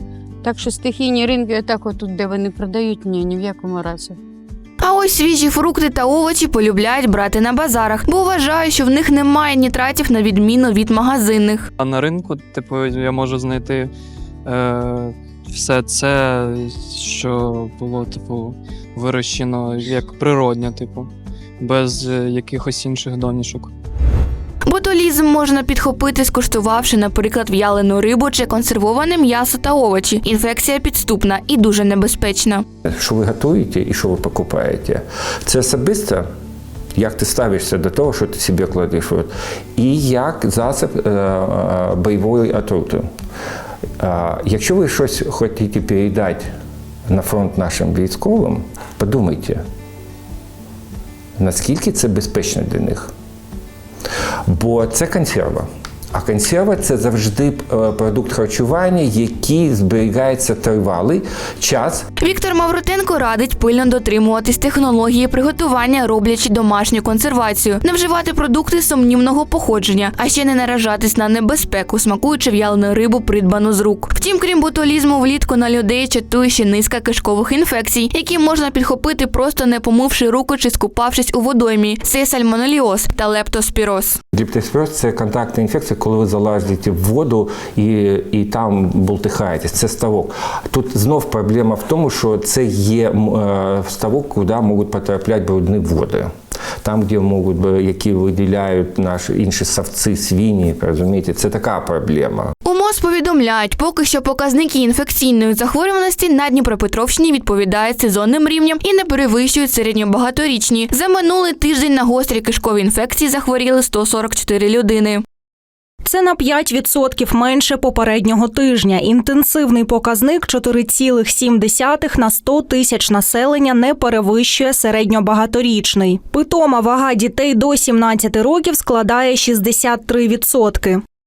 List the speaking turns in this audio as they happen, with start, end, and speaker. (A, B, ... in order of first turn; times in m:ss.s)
0:00.4-0:04.2 A
0:04.8-0:11.7 B
0:11.8-0:13.9 C
0:14.5-0:23.7 C
0:24.7-0:32.6 B
0:32.9-0:36.3 D
0:37.0-0:43.0 D
0:44.0-0:46.5 D
0:47.1-0:49.6 D
0:51.4-0:53.1 D
0:54.5-1:02.0 D
1:02.2-1:24.2 B
1:24.3-1:36.3 D
1:36.8-1:42.5 D
1:42.6-1:55.2 B
1:56.0-2:11.0 E